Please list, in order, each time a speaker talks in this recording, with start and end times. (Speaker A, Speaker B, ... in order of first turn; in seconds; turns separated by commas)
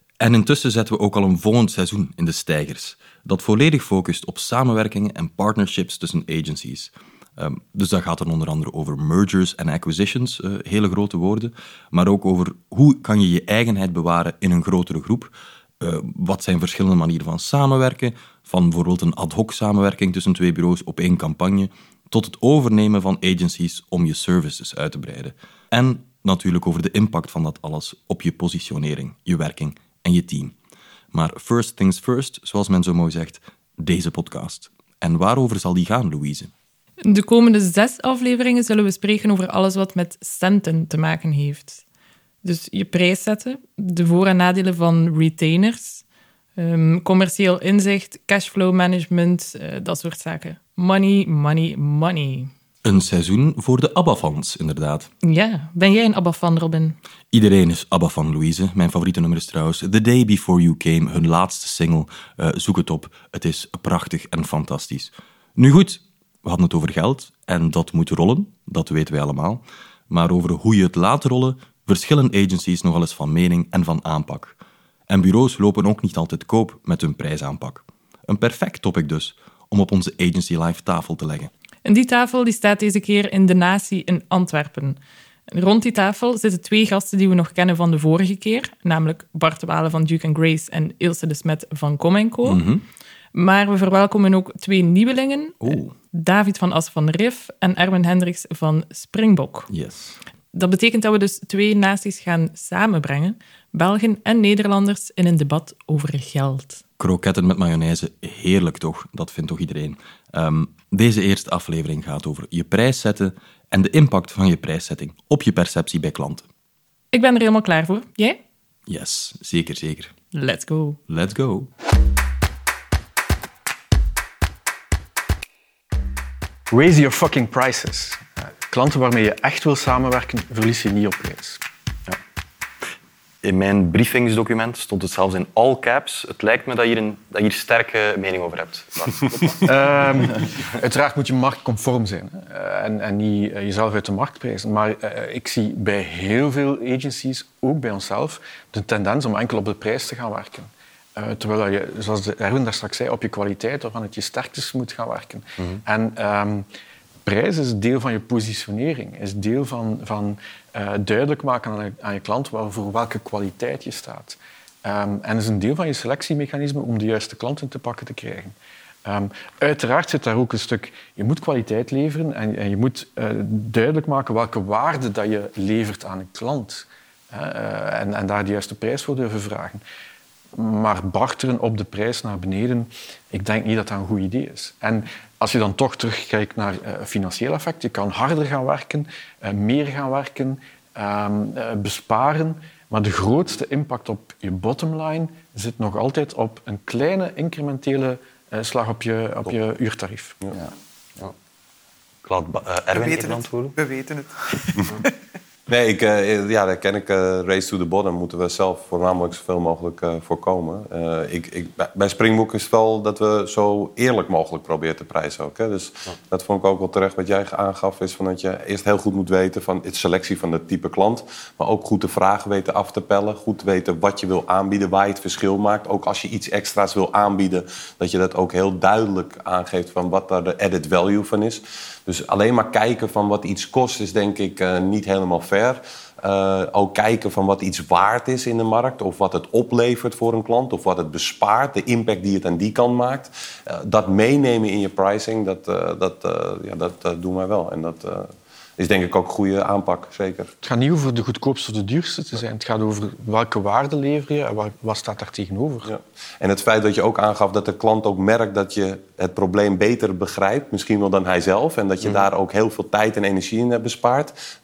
Speaker A: 0.2-30.5, Speaker A: 31.1-36.5, Speaker B: 37.1-41.8, Speaker B: 42.4-46.0, Speaker B: 46.6-52.5, Speaker A: 52.8-55.1, Speaker B: 55.2-57.0, Speaker A: 57.3-74.5, Speaker A: 75.1-81.5, Speaker B: 81.8-85.0, Speaker B: 85.5-92.6, Speaker A: 92.4-92.8, Speaker B: 93.3-99.7, Speaker A: 95.6-95.9, Speaker A: 99.7-100.2, Speaker B: 100.5-106.8, Speaker A: 107.0-116.5, Speaker B: 117.1-118.4, Speaker A: 118.9-120.1, Speaker B: 120.3-121.0, Speaker A: 121.1-121.7, Speaker C: 126.7-132.2, Speaker D: 133.4-140.1, Speaker C: 139.6-156.7, Speaker C: 157.2-179.8, Speaker C: 180.6-200.4, Speaker D: 202.2-203.7, Speaker E: 203.0-205.1, Speaker F: 205.7-248.3, Speaker F: 248.8-250.5, Speaker C: 250.6-255.9, Speaker F: 255.8-264.3, Speaker D: 262.0-262.3